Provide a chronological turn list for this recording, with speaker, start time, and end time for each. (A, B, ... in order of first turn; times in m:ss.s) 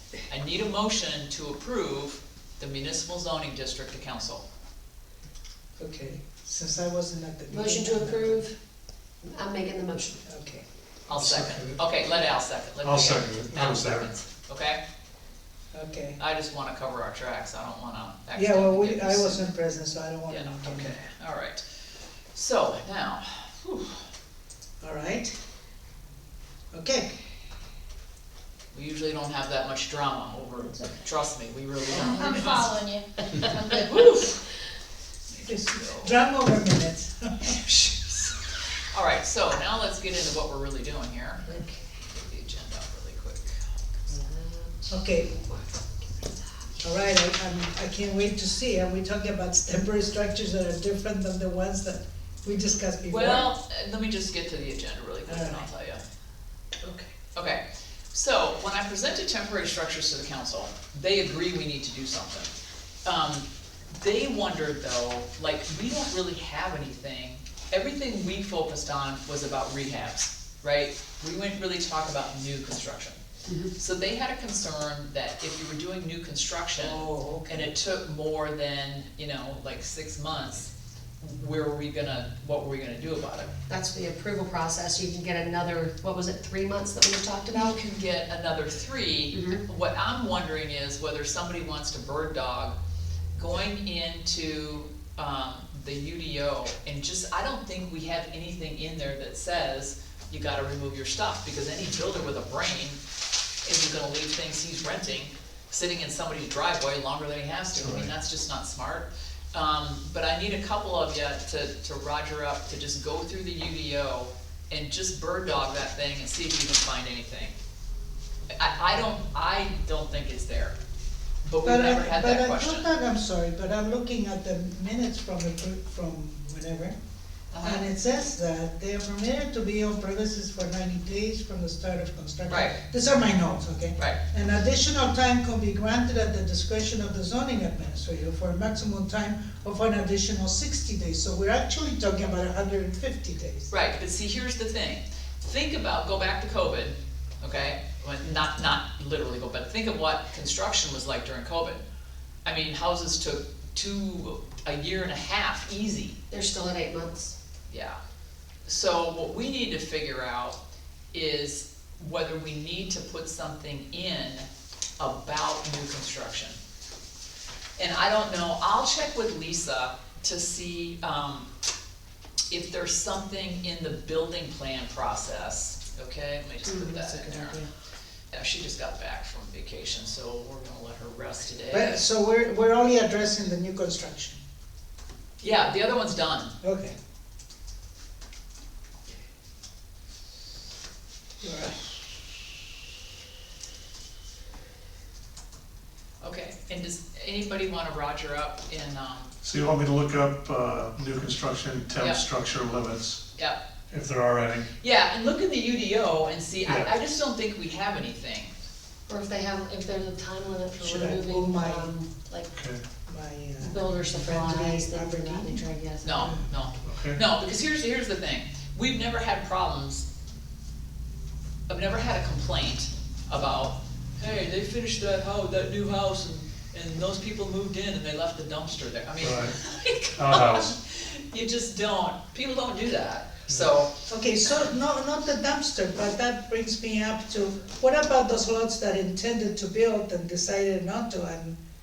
0:00.3-0:04.4 A
0:05.8-0:08.4 B
0:07.5-0:08.6 C
0:09.2-0:10.2 C
0:10.3-0:10.6 B
0:11.1-0:14.8 A
0:11.1-0:11.8 D
0:12.8-0:14.1 D
0:15.7-0:16.2 B
0:16.2-0:19.4 A
0:18.3-0:21.0 B
0:20.3-0:21.6 A
0:22.3-0:24.0 A
0:24.8-0:25.3 B
0:26.7-0:27.1 B
0:28.7-0:32.8 A
0:31.9-0:32.7 B
0:31.9-0:34.1 E
0:33.7-0:34.4 A
0:35.3-0:37.6 B
0:35.8-0:36.1 A
0:37.6-0:41.5 A
0:41.5-0:41.8 B
0:42.1-0:43.6 A
0:44.1-0:46.8 C
0:44.9-0:45.3 B
0:46.8-0:53.5 B
0:53.1-0:56.0 A
0:55.3-0:55.7 B
0:56.8-0:57.1 B
0:57.4-1:02.5 A
1:03.0-1:13.2 A
1:13.4-1:13.7 C
1:13.8-1:23.5 A
1:16.8-1:17.7 B
1:23.7-1:27.8 C
1:27.5-1:32.8 A
1:29.3-1:29.6 C
1:33.4-1:43.0 A
1:43.6-1:57.6 A
1:47.7-1:48.1 D
1:58.5-2:00.8 A
2:01.4-2:02.9 A
2:01.6-2:06.9 B
2:07.5-2:07.9 A
2:07.6-2:23.7 B
2:12.5-2:12.8 A
2:23.7-2:31.8 A
2:32.4-2:36.2 A
2:36.3-2:37.4 C
2:37.7-2:38.0 A
2:38.7-2:40.6 A
2:41.1-2:44.5 A
2:45.0-2:46.6 A
2:47.8-2:51.5 A
2:52.5-2:57.6 A
2:56.7-2:57.7 C
2:58.3-3:02.0 A
3:01.7-3:04.4 B
3:05.4-3:06.6 A
3:06.6-3:07.0 B
3:11.4-3:11.9 B
3:16.2-3:19.3 A
3:19.4-3:23.2 D
3:23.9-3:24.7 D
3:24.8-3:28.5 A
3:26.6-3:26.9 D
3:29.1-3:32.5 C
3:30.8-3:31.9 B
3:32.5-3:32.8 D
3:33.1-3:35.6 B
3:33.6-3:36.3 C
3:36.0-3:40.1 A
3:36.8-3:37.2 D
3:41.7-3:54.0 A
3:49.2-3:49.6 D
3:50.1-3:50.7 D
3:54.1-4:01.6 B